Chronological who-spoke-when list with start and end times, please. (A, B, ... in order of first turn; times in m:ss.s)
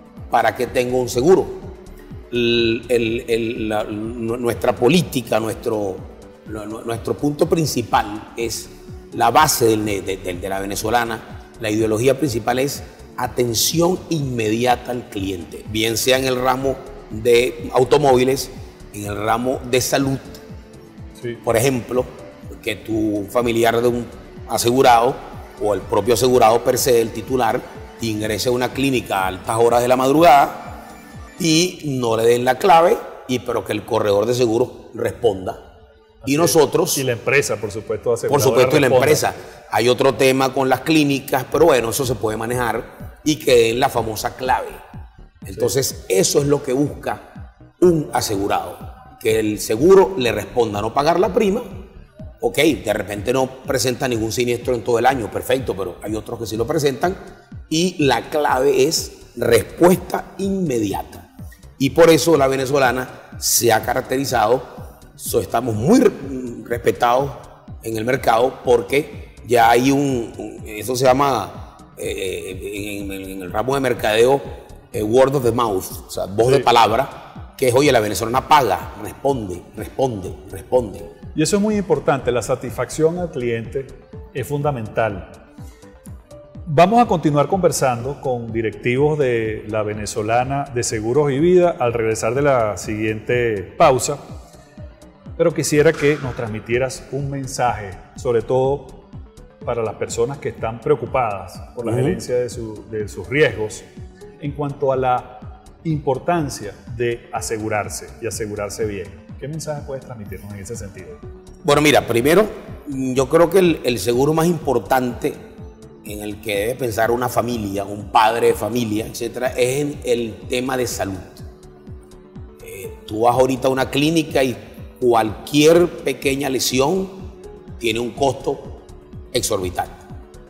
0:00.3-0:01.8 A
0:02.3-0:20.4 A
0:21.2-0:21.4 B
0:21.4-0:30.8 A
0:31.4-0:35.6 A
0:36.2-0:39.3 B
0:36.2-0:37.0 A
0:38.3-0:44.8 A
0:45.4-0:51.8 A
0:52.4-0:57.2 A
0:57.7-1:01.3 A
1:01.8-1:21.1 A
1:21.3-1:25.4 B
1:26.7-1:34.2 B
1:35.4-1:39.0 B
1:39.6-1:43.8 B
1:41.8-1:42.2 A
1:44.4-1:51.2 B
1:51.6-1:55.4 A
1:56.0-2:01.4 A
2:02.6-2:10.0 A